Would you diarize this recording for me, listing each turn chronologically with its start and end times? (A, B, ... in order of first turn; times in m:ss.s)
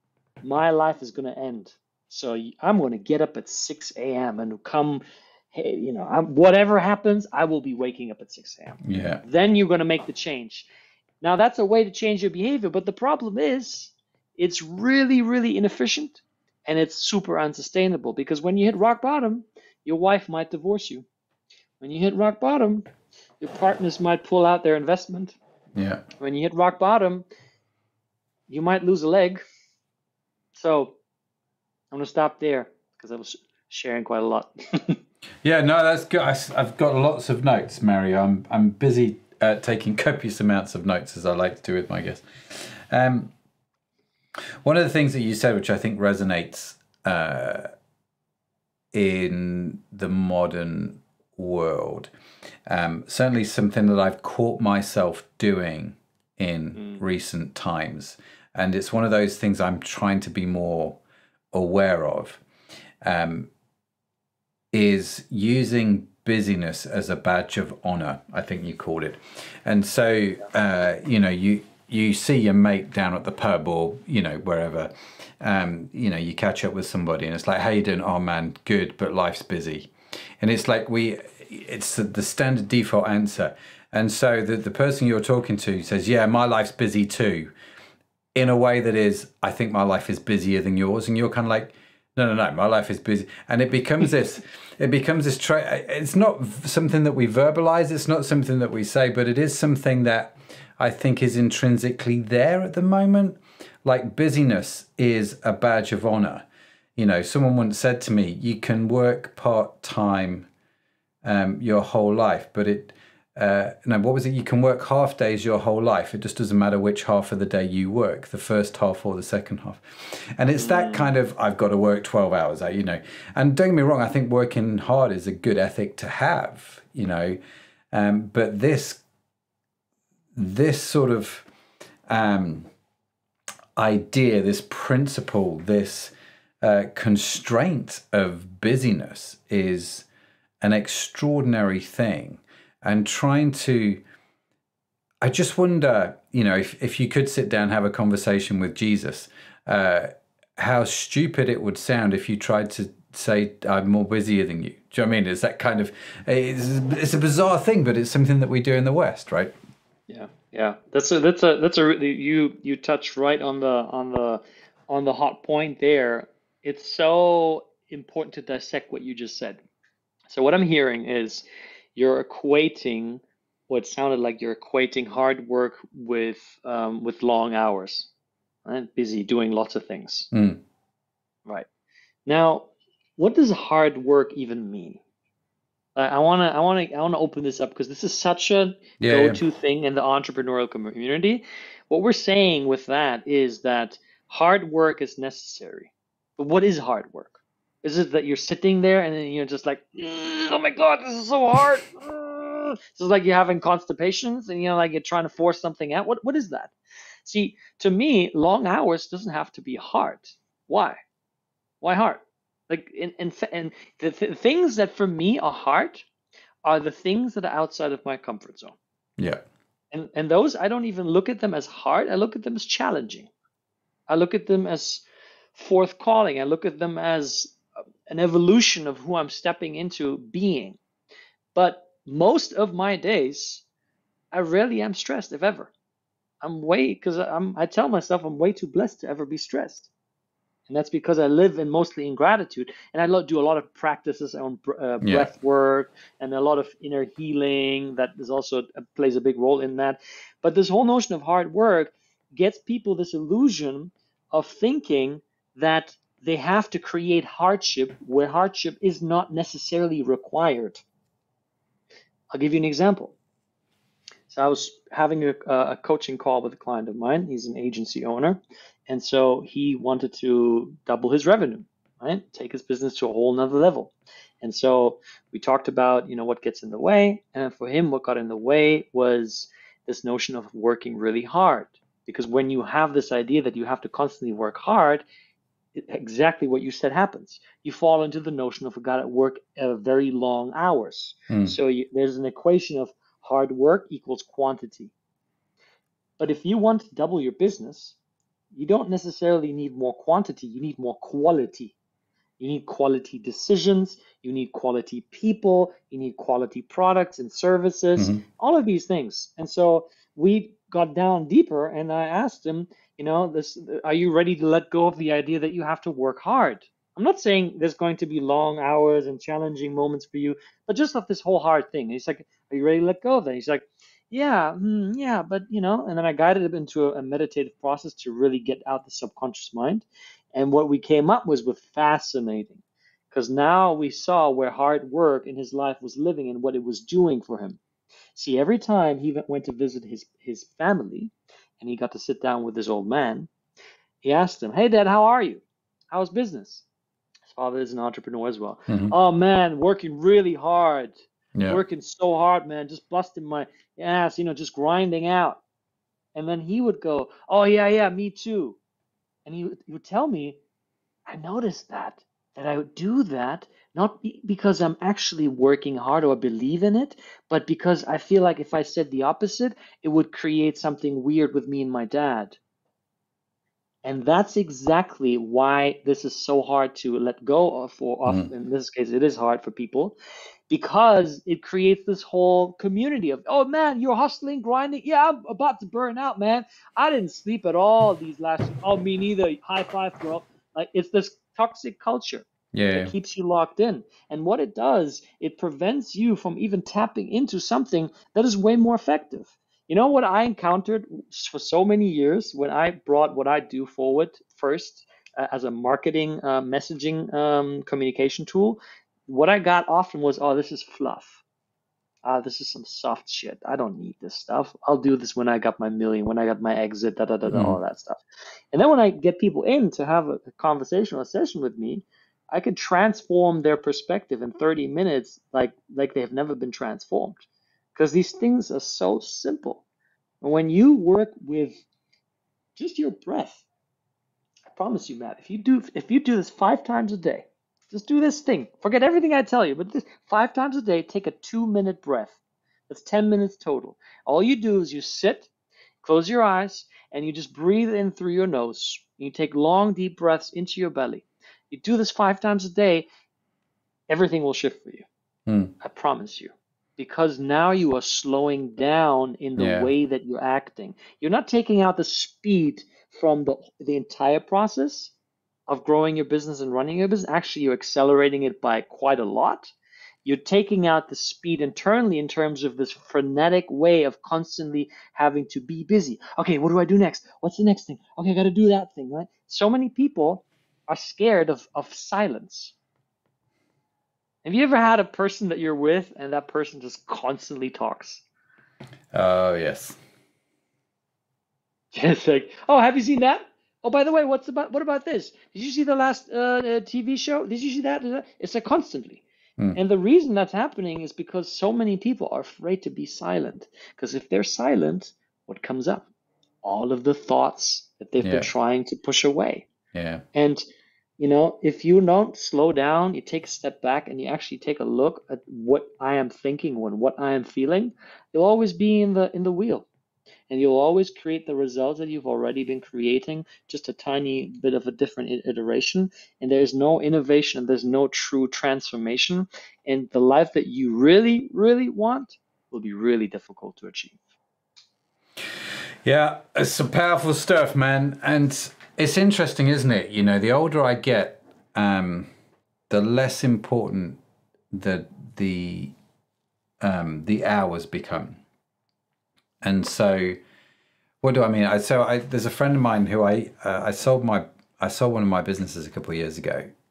0:00.4-0:10.7 A
0:08.8-0:09.2 B
0:11.2-0:21.0 A
0:21.8-0:22.9 A
0:23.4-0:25.4 A
0:25.7-0:26.0 B
0:26.2-0:27.2 A
0:28.5-0:29.4 A
0:30.6-0:31.0 A
0:31.9-0:35.0 A
0:35.4-0:43.3 B
0:44.6-0:47.7 B
0:48.9-0:52.1 B
0:52.7-1:01.0 B
0:56.8-0:57.0 A
1:01.5-1:02.4 B
1:03.0-1:03.5 B
1:04.7-1:27.5 B
1:28.3-1:46.4 B
1:47.0-1:50.5 B
1:51.2-2:07.4 B
2:00.6-2:01.1 A
2:07.9-2:09.0 B
2:10.3-2:11.5 B
2:12.1-2:12.7 B
2:13.8-2:20.0 B
2:20.6-2:24.0 B
2:25.2-2:39.5 B
2:40.1-2:49.6 A
2:50.3-2:58.1 A
2:58.6-3:00.3 A
3:00.3-3:00.6 B
3:02.2-3:05.0 A
3:06.0-3:31.0 A
3:09.0-3:09.4 B
3:31.8-3:36.0 A
3:36.6-3:38.8 A
3:39.9-3:43.3 A
3:44.1-3:50.8 A
3:51.5-3:53.6 A
3:54.3-3:55.7 A
3:56.4-3:59.9 A
4:00.7-4:20.8 A
4:05.0-4:05.3 B
4:22.3-4:23.2 A
4:24.3-4:45.0 A
4:45.7-4:54.9 A
4:51.3-4:51.6 B
4:56.2-4:58.0 A
4:58.5-5:01.7 A
5:02.4-5:37.6 A
5:08.0-5:08.2 B
5:38.1-5:43.3 A
5:44.0-5:46.6 A
5:47.3-5:55.4 A
5:48.7-5:48.9 B
5:51.3-5:51.6 B
5:56.1-5:58.6 A
5:59.2-6:00.4 A
6:01.1-6:12.4 A
6:13.8-6:20.0 A
6:20.5-6:51.2 A
6:32.5-6:32.9 B
6:52.0-6:58.0 A
6:57.3-6:57.6 B
6:58.5-7:07.2 A
7:07.7-7:09.6 A
7:10.2-7:11.6 A
7:12.6-7:13.4 A
7:14.5-7:22.2 A
7:22.7-7:25.3 A
7:25.8-7:32.9 A
7:33.9-7:34.8 A
7:35.3-7:35.5 B
7:35.6-7:44.9 A
7:39.4-7:39.7 B
7:45.5-7:49.5 A
7:50.0-8:02.5 A
8:04.2-8:08.0 A
8:08.9-8:09.8 B
8:11.7-8:19.0 A
8:19.5-8:25.9 A
8:26.4-8:29.5 A
8:28.0-8:28.3 B
8:29.7-8:30.0 B
8:30.1-8:30.4 A
8:31.0-8:39.7 A
8:40.3-8:54.0 A
8:55.8-9:02.1 B
9:02.7-9:04.0 B
9:04.5-9:05.7 B
9:06.6-9:08.2 B
9:09.4-9:10.2 B
9:11.0-9:16.5 B